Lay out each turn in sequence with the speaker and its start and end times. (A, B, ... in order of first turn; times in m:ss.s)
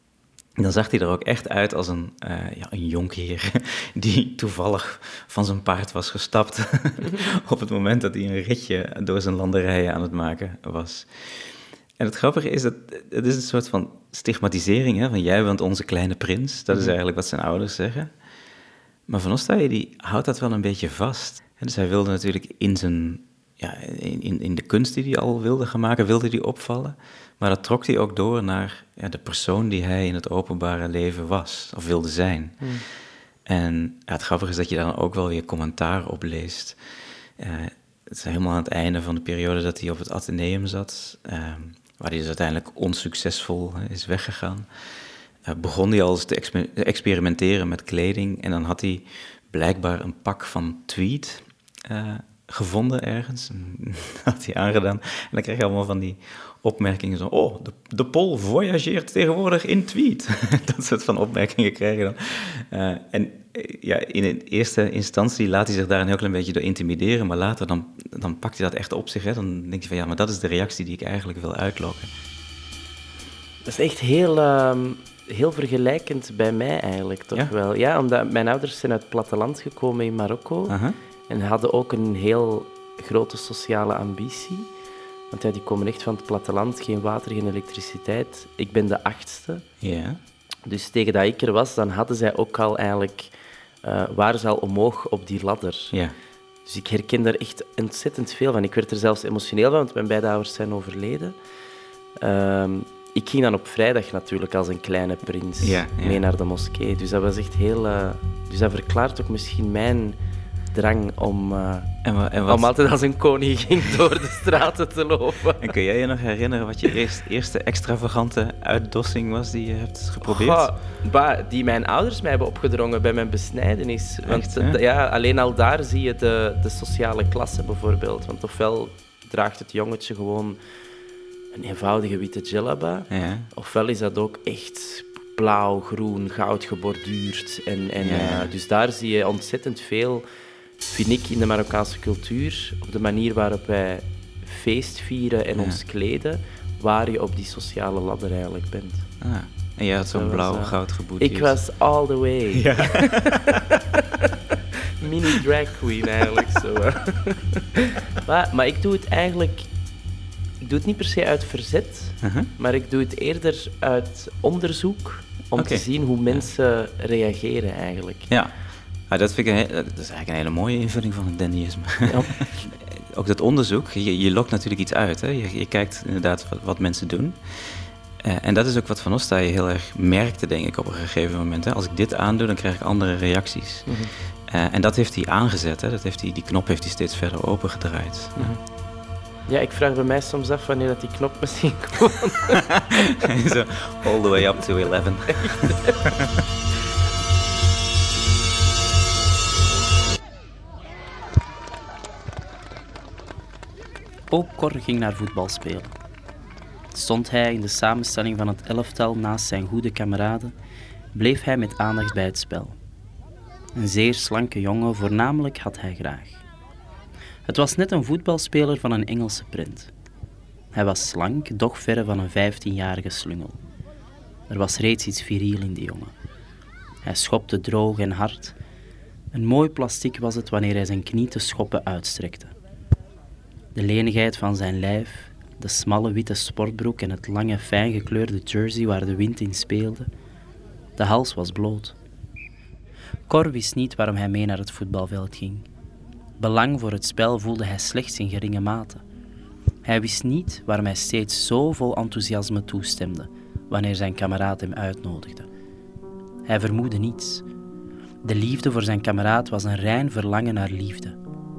0:00.6-0:18.1 A
0:19.1-0:32.8 A
0:33.5-0:36.8 A
0:37.4-0:44.7 A
0:45.5-1:12.1 A
1:13.7-1:20.6 B
1:20.7-1:21.0 A
1:21.3-1:24.6 B
1:25.3-1:29.6 B
1:29.8-1:30.2 A
1:30.7-1:33.3 B
1:33.8-1:35.9 B
1:36.7-1:41.4 B
1:42.2-1:50.2 B
1:45.6-1:46.2 A
1:50.7-1:51.8 B
1:52.0-1:52.8 A
1:52.6-1:55.3 B
1:55.6-2:00.7 A
2:00.5-2:10.6 B
2:04.2-2:04.8 A
2:11.6-2:13.0 B
2:13.1-2:13.5 A
2:13.6-2:20.2 B
2:18.0-2:18.5 A
2:20.9-2:29.0 B
2:25.6-2:25.8 A
2:29.2-2:31.6 A
2:30.2-2:30.7 B
2:31.3-2:32.4 B
2:32.5-2:33.6 A
2:35.2-2:36.9 B
2:38.3-2:39.7 B
2:40.6-2:42.0 B
2:42.2-2:42.5 A
2:42.6-2:48.2 B
2:45.5-2:46.5 A
2:49.1-3:08.6 A
3:09.5-3:12.1 B
3:13.2-3:15.8 A
3:24.3-3:25.9 C
3:26.9-3:30.5 C
3:31.1-3:32.8 C
3:33.8-3:36.4 C
3:37.5-3:39.9 C
3:40.7-3:43.6 C
3:44.5-3:46.2 C
3:47.0-3:48.6 C
3:49.3-3:52.5 C
3:53.8-4:00.1 C
4:01.0-4:02.0 C
4:03.3-4:05.6 C
4:06.4-4:09.0 C
4:09.8-4:15.5 C
4:16.5-4:17.4 C
4:18.2-4:21.2 C